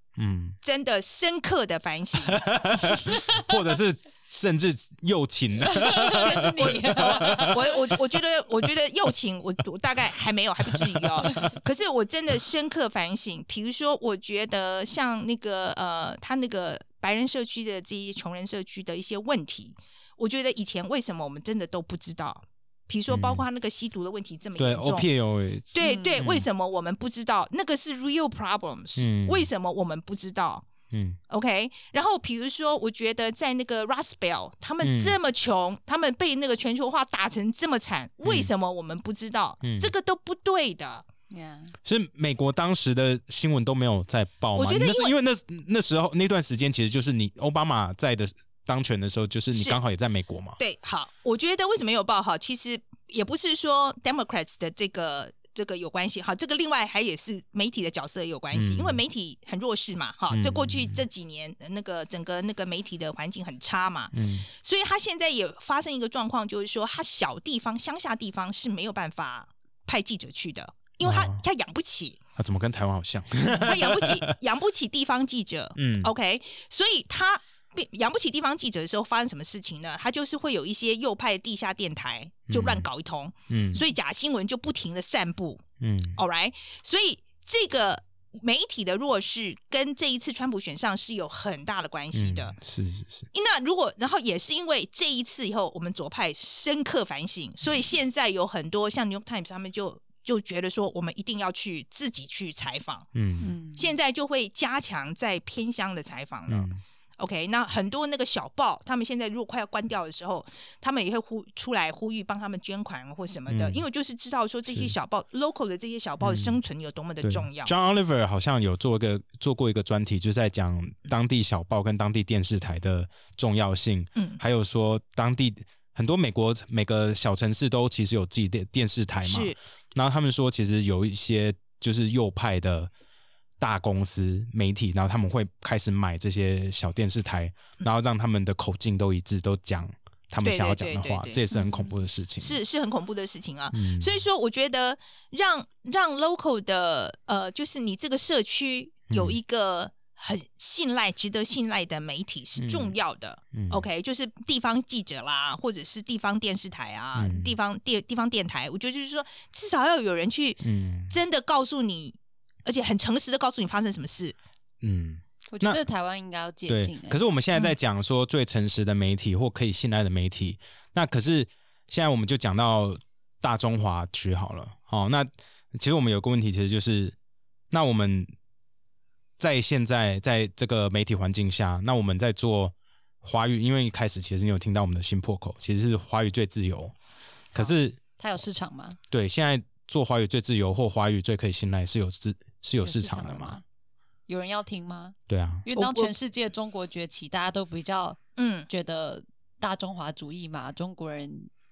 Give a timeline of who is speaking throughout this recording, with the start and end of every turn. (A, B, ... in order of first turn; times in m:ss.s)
0:00.2-0:00.6 A
0:00.6-0:03.1 B
0:02.3-0:07.7 A
0:05.6-0:07.7 C
0:06.1-0:25.1 B
0:10.7-0:11.5 A
0:23.1-0:23.4 A
0:24.6-0:26.5 A
0:25.7-0:30.7 B
0:25.8-0:26.2 C
0:29.0-0:29.5 A
0:30.9-0:31.2 A
0:31.3-0:41.0 B
0:34.8-0:35.2 A
0:38.2-0:38.5 A
0:39.6-0:39.9 A
0:41.3-0:41.7 C
0:41.8-0:50.6 A
0:44.6-0:45.1 B
0:49.5-0:49.8 B
0:50.6-1:12.2 B
0:58.5-0:59.0 A
1:00.3-1:01.0 A
1:04.1-1:04.4 A
1:11.0-1:11.4 A
1:12.4-1:14.3 A
1:13.5-1:25.6 B
1:15.8-1:16.1 A
1:22.5-1:22.9 A
1:23.5-1:23.8 A
1:25.8-1:26.2 A
1:26.2-1:32.6 B
1:32.1-1:33.3 A
1:33.3-1:43.1 B
1:43.1-1:43.5 A
1:43.4-1:43.9 C
1:43.8-1:57.7 B
1:46.5-1:46.8 A
1:53.5-1:53.8 A
1:54.7-1:54.9 A
1:56.2-1:56.6 A
1:57.2-2:12.9 A
2:04.2-2:04.4 B
2:09.2-2:09.6 B
2:13.6-2:22.6 A
2:20.4-2:21.4 B
2:21.5-2:21.9 C
2:22.4-2:44.4 B
2:23.7-2:24.1 A
2:29.1-2:29.4 A
2:32.6-2:33.0 A
2:33.5-2:33.8 A
2:37.1-2:37.6 A
2:40.6-2:41.1 A
2:44.8-2:45.8 A
2:45.5-2:47.2 C
2:46.7-2:57.2 A
2:57.7-2:58.3 A
2:59.4-3:06.9 A
3:07.5-3:08.0 A
3:07.5-3:09.0 C
3:09.1-3:13.6 A
3:12.8-3:13.6 C
3:14.3-3:21.5 C
3:15.3-3:15.6 A
3:15.7-3:16.1 B
3:18.4-3:18.7 B